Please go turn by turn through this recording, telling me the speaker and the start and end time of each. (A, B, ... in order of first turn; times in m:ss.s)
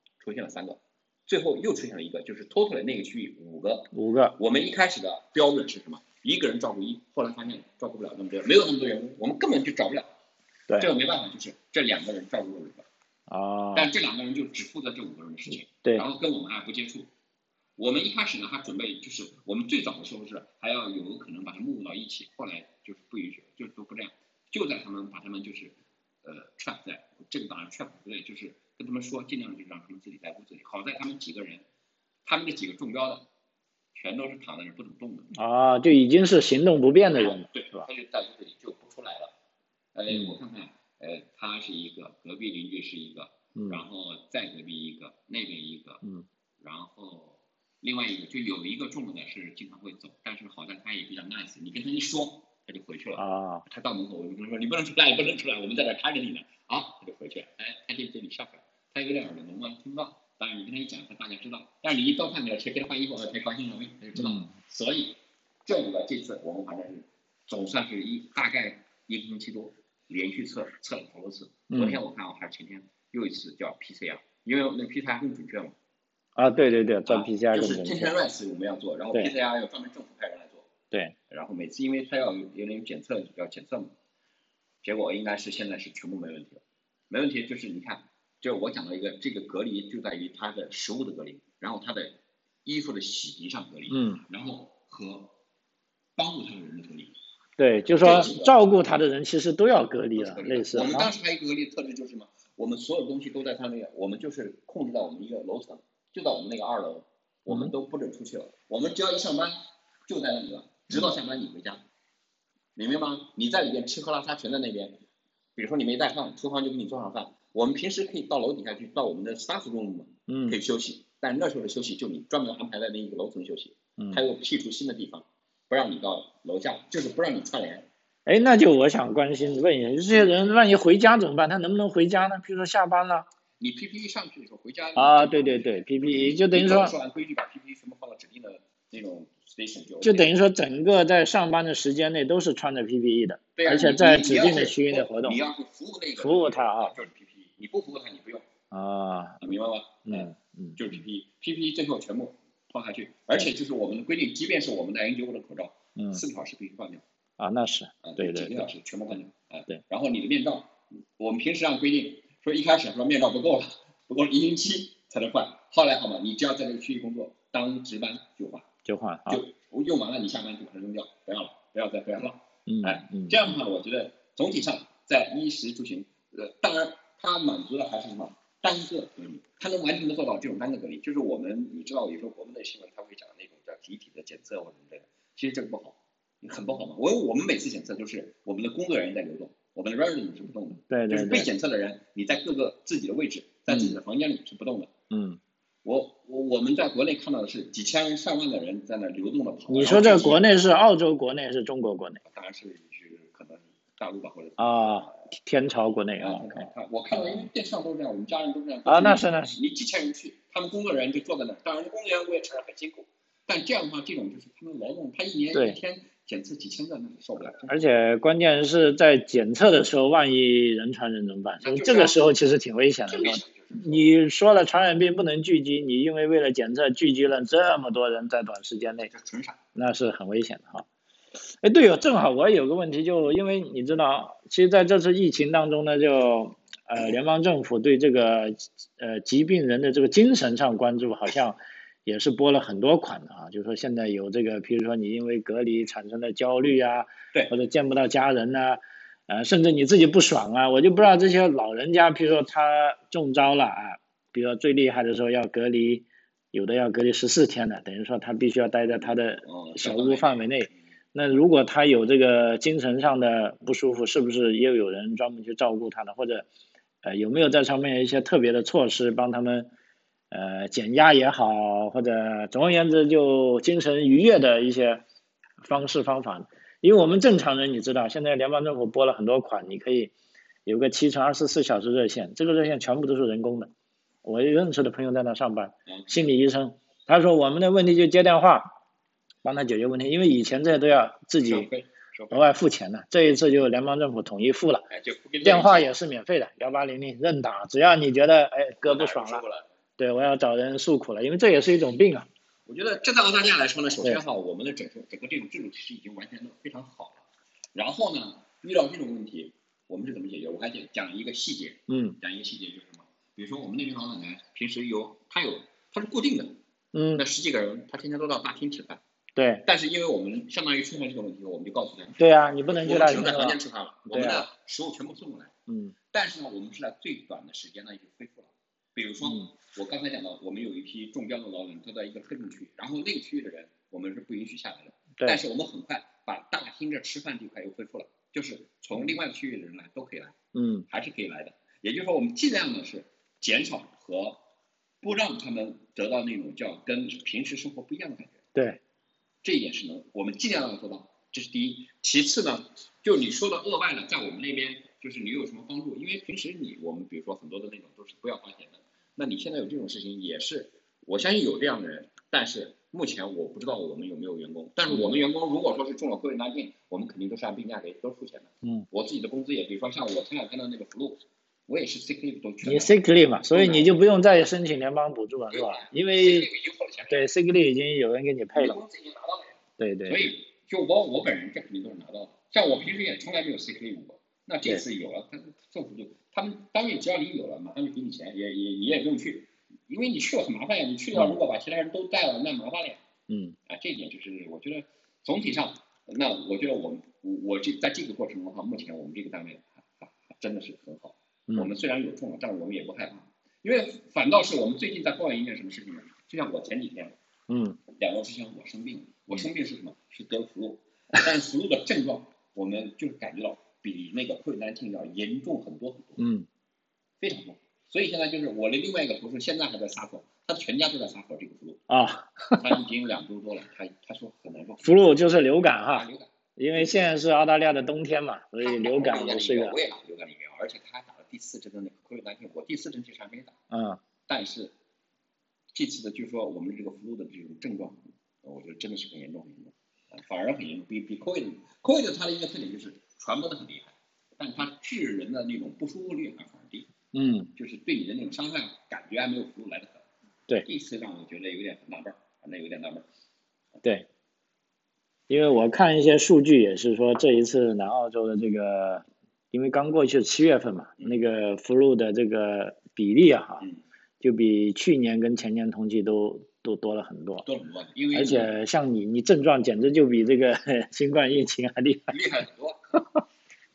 0:00.2-0:10.1 A
0:03.9-0:04.4 B
0:10.8-0:12.9 A
0:13.3-0:13.9 B
0:13.7-0:17.1 A
0:17.8-0:31.6 A
0:32.2-0:33.3 A
0:33.9-0:35.4 A
0:35.3-0:37.9 B
0:37.1-0:39.3 A
0:39.9-0:46.0 A
0:40.1-0:40.3 B
0:43.6-0:43.8 B
0:46.6-1:15.8 A
0:53.2-0:53.7 B
1:04.2-1:04.5 B
1:11.7-1:12.0 B
1:16.4-1:18.1 B
1:17.1-1:20.7 A
1:21.3-1:24.0 A
1:24.8-1:35.4 A
1:33.9-1:34.2 B
1:36.2-1:37.2 A
1:37.6-1:41.1 B
1:38.0-1:38.6 A
1:40.2-1:51.8 A
1:52.8-1:55.0 A
1:55.6-2:07.9 A
2:00.3-2:00.6 B
2:08.3-2:13.3 B
2:10.1-2:10.4 A
2:13.6-2:20.4 A
2:15.0-2:16.9 B
2:20.0-2:25.4 B
2:23.6-2:28.5 A
2:26.2-2:27.0 B
2:28.7-2:29.4 B
2:29.4-2:37.0 A
2:30.1-2:30.8 B
2:36.0-2:36.2 B
2:37.4-2:38.7 B
2:38.0-2:48.7 A
2:48.9-2:49.4 B
2:49.3-3:14.9 A
2:52.7-2:53.4 B
3:10.9-3:11.5 B
3:15.1-3:15.4 B
3:15.8-3:20.4 A
3:19.7-3:22.2 B
3:22.2-3:25.2 A
3:24.6-3:27.5 B
3:26.2-3:37.8 A
3:28.9-3:29.6 B
3:37.6-3:49.1 B
3:41.6-3:42.3 A
3:43.1-3:44.2 A
3:49.1-3:49.6 A
3:49.8-3:50.9 B
3:51.6-4:26.5 B
4:18.9-4:20.8 A
4:27.0-4:29.7 B
4:30.3-4:35.0 B
4:35.6-4:40.1 B
4:40.7-4:43.7 B
4:44.2-4:48.7 B
4:45.9-4:46.3 A
4:49.4-4:51.7 B
4:51.4-4:52.4 A
4:52.3-4:54.9 B
4:54.9-4:55.9 A
4:55.4-4:59.4 B
4:58.8-4:59.7 A
5:00.0-5:02.3 B
5:02.7-5:16.6 A
5:11.9-5:12.2 B
5:16.9-5:17.2 B
5:17.1-5:19.0 A
5:19.4-5:19.6 B
5:19.6-5:25.5 A
5:22.2-5:24.5 B
5:25.7-5:25.9 B
5:26.1-5:40.4 A
5:29.2-5:29.5 B
5:40.5-5:40.9 B
5:40.9-5:44.4 A
5:45.0-5:48.4 A
5:48.6-5:48.8 B
5:49.4-6:13.0 A
6:12.6-6:16.5 B
6:13.5-6:14.0 A
6:15.5-6:17.3 A
6:17.1-6:18.8 B
6:18.5-6:33.0 A
6:19.8-6:20.3 B
6:33.3-6:33.6 B
6:33.7-6:47.2 A
6:47.5-6:47.8 B
6:47.9-6:56.2 A
6:56.2-6:56.5 B
6:57.2-7:01.8 A
7:01.9-7:02.6 B
7:02.6-7:07.0 A
7:04.8-7:06.1 B
7:06.6-7:09.8 B
7:08.6-7:13.6 A
7:13.7-7:14.0 B
7:14.3-7:14.7 A
7:15.7-7:26.9 A
7:27.1-7:27.5 B
7:27.6-7:30.1 A
7:30.6-7:33.1 A
7:35.3-7:43.6 B
7:44.2-7:47.4 B
7:47.4-7:48.5 A
7:48.1-7:52.2 B
7:52.1-7:53.0 A